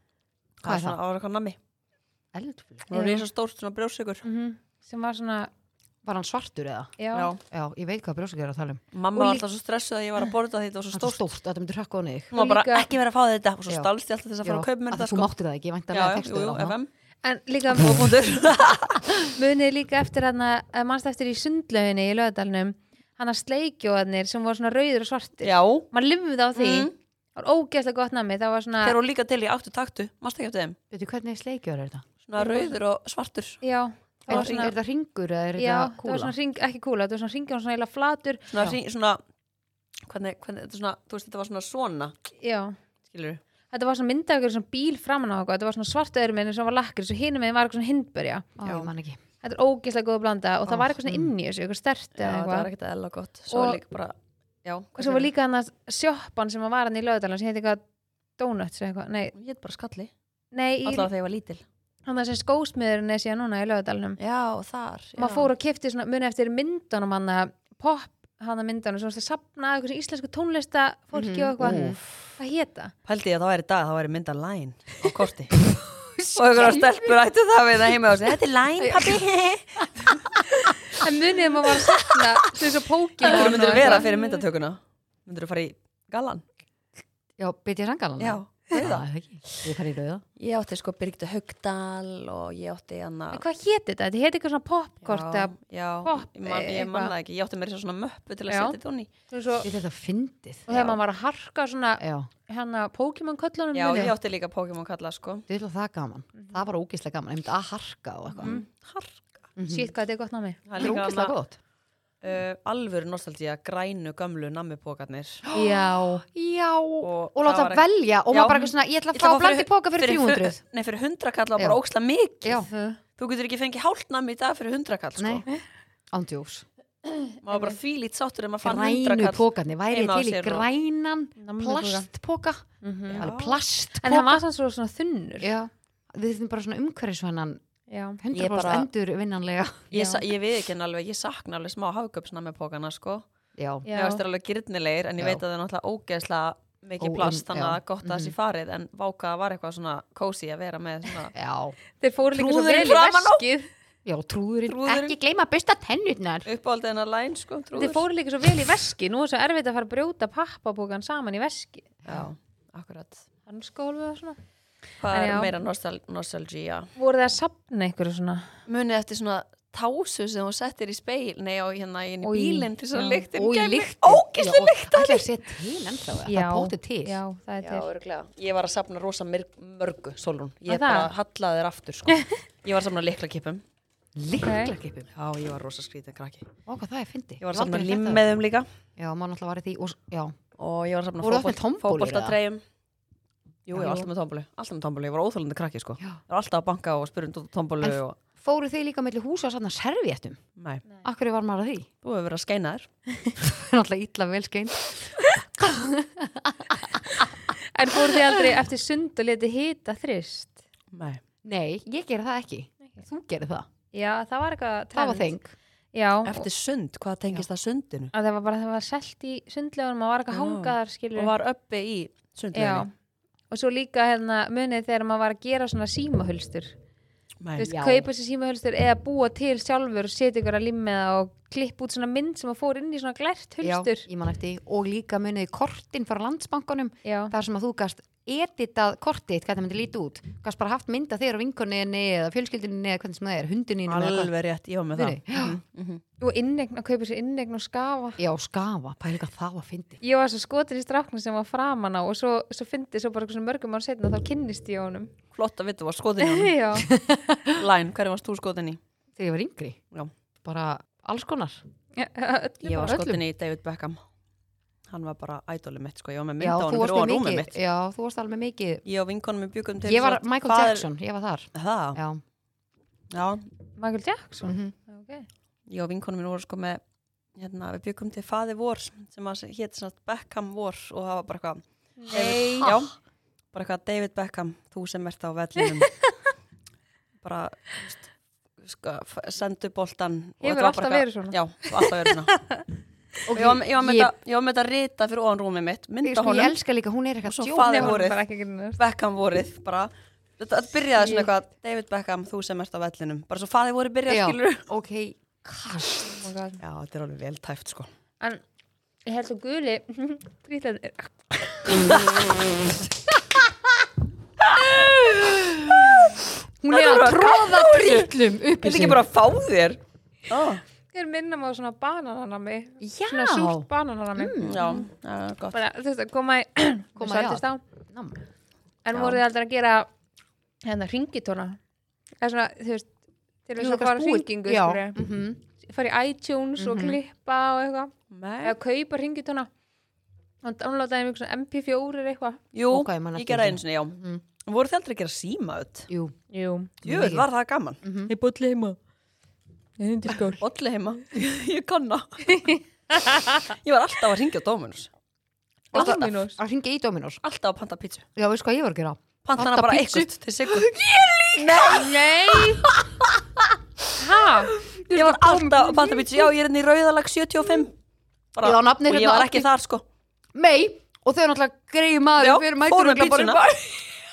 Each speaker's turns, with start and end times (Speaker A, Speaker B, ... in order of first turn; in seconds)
Speaker A: 0.6-1.6, 2.9-4.2, 7.1-7.4, 8.9-11.2, 12.3-15.3, 15.9-16.9, 17.7-19.3, 25.4-25.9, 26.5-26.9, 28.8-30.8, 32.2-33.6, 34.3-34.7, 38.5-39.2, 40.0-42.1, 43.1-43.4, 48.6-48.9, 52.2-55.3, 59.3-60.1, 60.8-61.6, 64.2-65.5, 71.6-72.3, 73.0-75.5, 76.3-80.4, 83.2-86.4, 88.2-89.7, 90.4-93.4, 95.0-99.1, 103.7-105.4, 108.3-109.3, 110.7-111.3, 112.2-115.4, 117.0-122.6, 123.2-125.4, 127.4-130.7, 133.1-133.6, 138.3-138.9, 139.9-143.2, 143.9-151.3, 152.3-153.4, 154.7-155.2, 156.4-158.0, 162.1-163.3, 165.0-166.9, 168.7-175.3, 177.6-183.6, 185.1-186.5, 187.4-188.7, 190.6-192.6, 193.7-198.2, 200.6-200.8, 202.0-202.9, 210.9-211.2, 216.2-218.1, 220.3-222.9, 227.4-227.7, 243.9-246.0, 255.3-256.5, 257.5-258.8, 262.6-264.0, 264.9-267.5, 268.8-270.9, 271.5-272.0, 273.1-273.5, 275.7-276.8, 277.3-282.9, 283.5-285.9, 287.2-288.1, 288.6-292.3, 293.3-296.5, 297.2-298.2, 298.8-304.6, 306.6-307.9, 311.7-312.5, 314.4-320.6, 324.4-325.6, 338.1-338.6, 342.5-345.9, 346.8-347.8, 350.2-352.5, 353.4-354.9, 357.2-358.0, 359.2-360.7, 361.3-362.5, 364.5-367.8, 368.3-369.8, 372.2-373.5
Speaker B: 0.6-1.0, 2.3-2.9, 6.0-6.9, 7.5-8.8, 10.9-12.3, 14.4-16.8, 30.9-32.1, 34.3-36.3, 48.6-49.2, 50.6-51.3, 71.1-72.0, 76.2-77.1, 80.3-81.0, 83.5-84.0, 87.4-90.2, 99.6-101.0, 102.0-102.3, 105.5-108.6, 109.6-109.9, 110.8-111.6, 115.5-120.6, 122.4-122.7, 125.2-125.4, 126.1-126.6, 128.6-134.4, 135.4-137.6, 138.2-139.9, 143.6-143.8, 147.0-148.3, 151.3-151.7, 154.0-156.5, 173.3-177.2, 184.2-185.1, 186.7-188.2, 189.0-190.4, 191.2-192.4, 193.7-194.1, 197.8-200.4, 201.0-201.9, 203.4-208.4, 211.4-213.7, 214.9-215.5, 227.6-228.1, 233.6-244.3, 244.9-245.6, 248.2-250.0, 256.8-257.6, 259.2-259.8, 260.4-261.6, 262.8-263.2, 266.4-268.8, 269.8-272.2, 274.4-274.7, 293.3-294.1, 296.0-298.0, 304.1-306.2, 315.6-319.0, 322.8-324.7, 327.0-328.2, 328.9-329.2, 333.6-335.4, 336.6-337.0, 342.7-344.2, 345.9-346.1, 346.8-347.3, 347.8-348.1, 355.7-357.2, 358.1-361.6, 362.6-363.0, 364.9-366.0, 368.4-369.5, 370.3-374.0
Speaker C: 2.9-3.2, 4.2-5.5, 7.0-7.3, 9.1-9.4, 12.3-12.9, 17.2-18.2, 19.3-28.9, 32.4-32.7, 33.6-34.8, 35.6-38.5, 42.4-42.8, 43.7-48.5, 49.4-52.7, 53.5-53.8, 55.0-57.8, 58.4-59.3, 60.5-61.1, 62.0-64.2, 65.2-72.9, 78.8-79.2, 80.9-84.2, 93.3-97.1, 98.5-98.8, 99.3-99.7, 100.7-104.2, 109.7-110.9, 122.7-123.0, 131.4-132.1, 132.8-133.3, 134.0-135.5, 137.9-138.2, 139.9-140.2, 143.8-144.2, 152.0-153.7, 157.7-161.9, 163.5-164.4, 165.1-165.5, 167.0-168.6, 172.2-173.3, 176.3-177.9, 180.7-181.1, 184.4-184.7, 207.7-210.6, 213.9-215.3, 215.9-216.5, 218.1-221.3, 222.5-222.9, 223.5-226.7, 227.6-234.1, 237.0-237.3, 246.2-248.2, 250.0-255.1, 256.2-256.9, 261.9-263.0, 273.8-275.3, 282.0-282.8, 285.6-286.1, 290.4-292.6, 297.6-298.8, 301.0-301.3, 306.1-306.6, 309.0-312.0, 320.9-324.9, 325.5-327.6, 328.8-329.9, 330.6-331.6, 332.2-332.9, 333.4-335.0, 335.6-339.5, 340.4-342.4, 346.3-346.7, 348.1-348.8, 349.8-350.4, 352.4-353.4, 355.7-356.4, 361.5-362.7, 364.0-365.8